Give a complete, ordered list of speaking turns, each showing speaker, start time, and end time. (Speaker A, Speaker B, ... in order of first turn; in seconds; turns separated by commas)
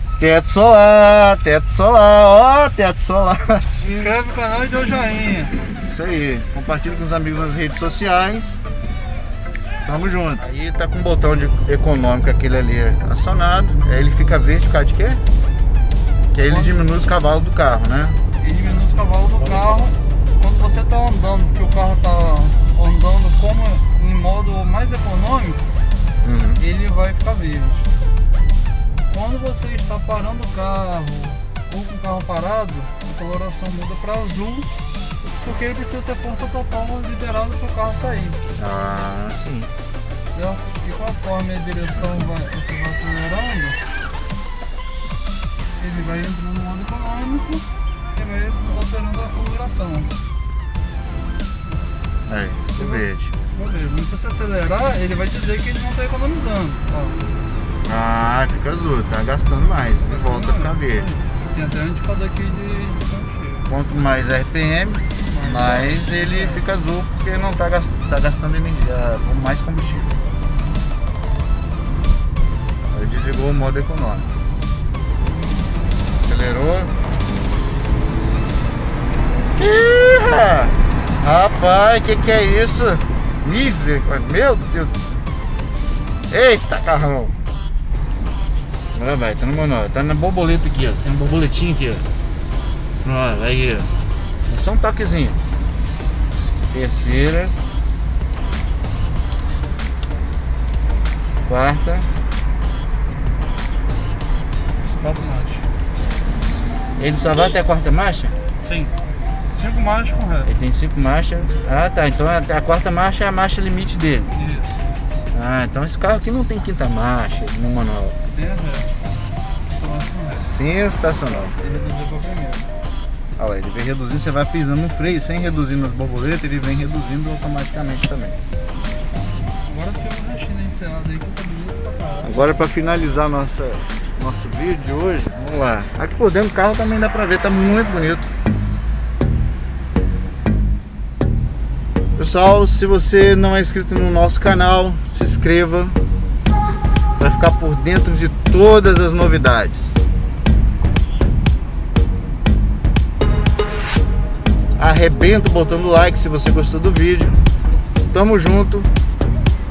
Speaker A: 0.2-3.9, Speaker B: 3.8-5.5, Speaker A: 5.8-8.6, Speaker A: 9.8-15.2, Speaker A: 16.3-18.2, Speaker B: 16.4-16.9, Speaker B: 18.4-25.6, Speaker A: 26.2-26.6, Speaker B: 26.6-27.9, Speaker B: 29.1-34.7, Speaker B: 35.2-38.4, Speaker A: 38.6-39.7, Speaker B: 40.3-43.8, Speaker B: 45.8-50.1, Speaker A: 52.3-53.2, Speaker B: 52.8-57.2, Speaker A: 57.8-61.1, Speaker B: 60.0-63.7, Speaker A: 63.7-70.1, Speaker B: 65.3-66.6, Speaker A: 72.9-74.3, Speaker A: 76.1-76.9, Speaker A: 79.5-85.2, Speaker A: 86.3-87.3, Speaker A: 88.9-92.0, Speaker A: 93.0-93.9, Speaker A: 94.5-95.4, Speaker A: 96.7-97.5, Speaker A: 101.5-102.1, Speaker B: 104.8-105.7, Speaker A: 107.0-108.3, Speaker B: 108.6-109.0, Speaker B: 109.5-110.5, Speaker A: 110.4-114.3, Speaker B: 114.3-114.9, Speaker A: 115.3-118.2, Speaker B: 118.3-118.9, Speaker B: 119.7-120.5, Speaker A: 120.3-121.5, Speaker B: 121.3-122.7, Speaker A: 123.4-128.4, Speaker B: 129.6-132.5, Speaker A: 132.2-138.3, Speaker A: 142.2-146.0, Speaker A: 147.2-150.0, Speaker A: 154.8-157.4, Speaker A: 158.1-158.9